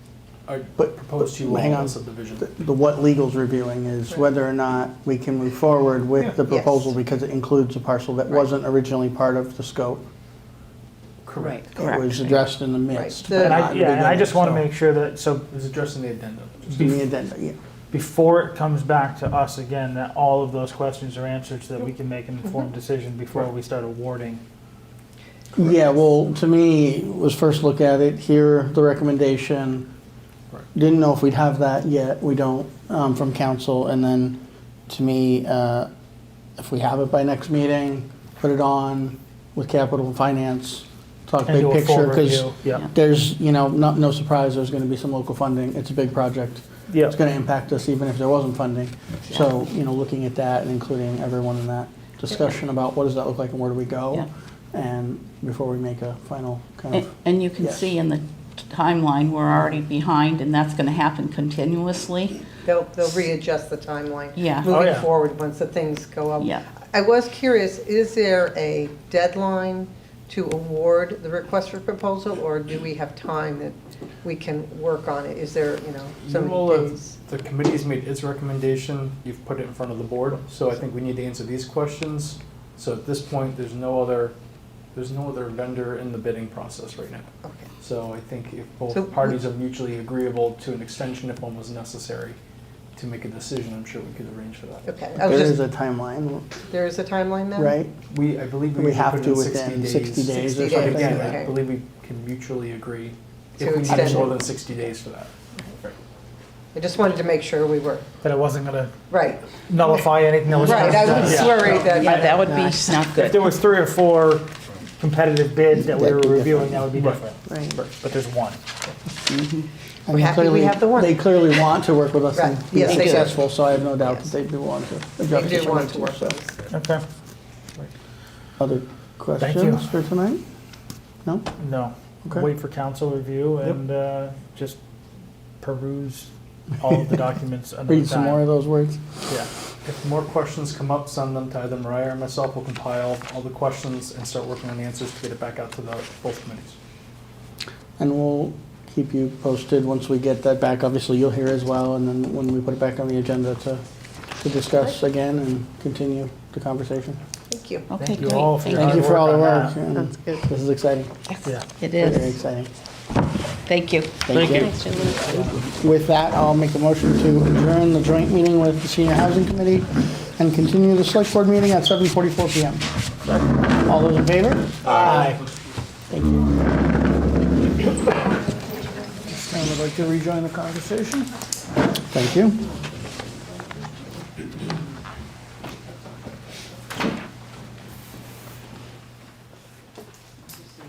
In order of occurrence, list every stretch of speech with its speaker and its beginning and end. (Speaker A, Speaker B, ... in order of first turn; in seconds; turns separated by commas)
Speaker A: 0.5-2.5, Speaker B: 0.8-10.0, Speaker C: 6.5-6.9, Speaker A: 11.2-11.7, Speaker D: 11.5-12.4, Speaker B: 11.8-14.7, Speaker C: 12.9-13.6, Speaker E: 13.4-15.5, Speaker A: 15.5-16.9, Speaker B: 16.7-17.6, Speaker E: 16.7-17.0, Speaker E: 17.9-24.4, Speaker B: 25.5-29.9, Speaker B: 30.7-35.9, Speaker B: 36.6-57.9, Speaker E: 41.5-42.8, Speaker E: 46.9-47.1, Speaker D: 56.9-62.3, Speaker C: 62.6-77.2, Speaker D: 64.3-64.7, Speaker E: 64.7-65.1, Speaker D: 66.4-66.6, Speaker A: 76.2-84.3, Speaker A: 84.9-87.3, Speaker C: 87.4-87.7, Speaker A: 87.8-92.4, Speaker C: 88.9-89.4, Speaker A: 92.9-95.0, Speaker C: 94.8-95.6, Speaker B: 95.2-96.5, Speaker C: 96.6-97.8, Speaker B: 97.5-97.9, Speaker A: 98.1-106.0, Speaker B: 98.7-101.4, Speaker C: 100.3-101.6, Speaker C: 103.6-104.5, Speaker C: 106.7-108.0, Speaker E: 108.2-108.9, Speaker C: 109.1-109.5, Speaker E: 109.6-112.5, Speaker C: 110.5-112.8, Speaker D: 110.7-113.5, Speaker E: 113.1-118.6, Speaker B: 115.8-116.8, Speaker D: 119.3-119.7, Speaker B: 120.0-126.3, Speaker C: 120.1-121.1, Speaker C: 122.3-123.4, Speaker D: 122.8-123.2, Speaker C: 124.0-124.3, Speaker C: 125.3-126.6, Speaker E: 126.7-127.0, Speaker B: 128.6-130.4, Speaker E: 129.4-129.8, Speaker B: 131.2-131.5, Speaker E: 131.6-134.8, Speaker E: 135.6-138.4, Speaker B: 137.9-139.0, Speaker A: 139.3-146.8, Speaker B: 148.0-153.8, Speaker B: 154.4-157.2, Speaker C: 157.5-157.9, Speaker D: 157.9-159.1, Speaker E: 157.9-159.8, Speaker B: 158.7-161.1, Speaker C: 159.9-160.4, Speaker D: 161.3-162.3, Speaker B: 162.0-162.7, Speaker D: 163.6-164.3, Speaker B: 164.3-164.8, Speaker C: 164.7-165.4, Speaker B: 165.5-172.8, Speaker B: 173.7-175.4, Speaker E: 175.0-175.4, Speaker B: 176.1-176.5, Speaker B: 179.5-179.9, Speaker B: 182.1-182.6